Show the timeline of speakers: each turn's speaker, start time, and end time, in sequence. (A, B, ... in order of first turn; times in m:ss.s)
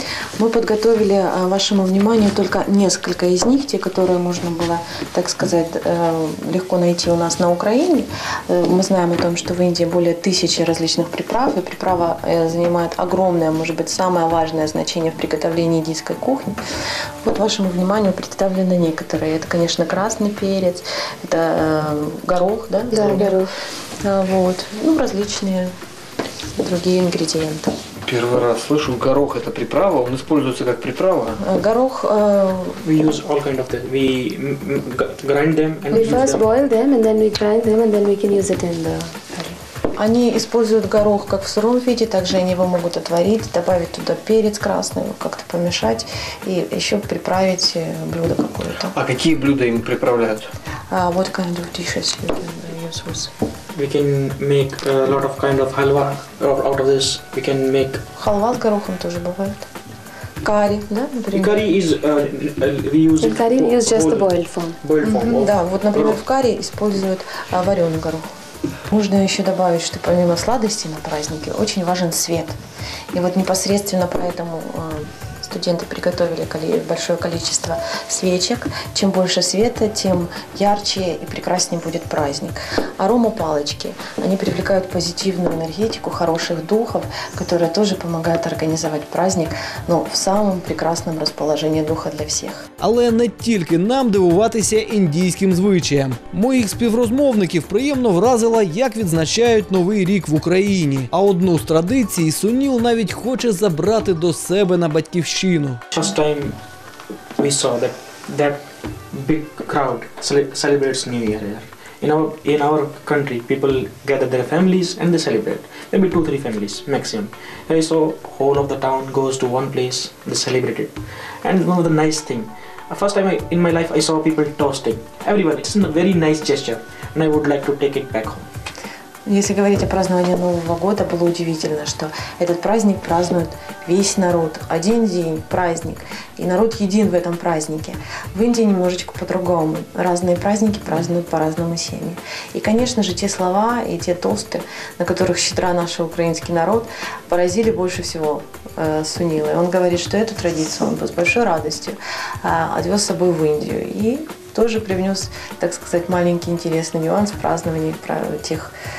0:00.4-0:16.6 A
0:17.2-0:23.4 A
0:24.0-0:25.7 A
0:26.6-0:27.7 A
0:28.1-0:31.4 B
0:31.4-0:32.8 A
0:32.8-0:36.5 C
0:35.9-0:39.6 D
0:39.9-0:49.0 A
0:48.9-0:50.5 B
0:50.9-0:53.3 A
0:53.7-0:58.0 C
0:58.2-0:59.6 A
1:00.4-1:01.6 A
1:01.3-1:06.2 C
1:03.2-1:04.8 D
1:05.0-1:08.3 A
1:08.9-1:12.5 A
1:13.1-1:32.6 A
1:32.8-1:45.8 E
1:45.9-1:46.6 C
1:47.4-1:48.6 C
1:49.1-2:00.9 C
2:01.4-2:08.4 C
2:09.2-2:38.7 A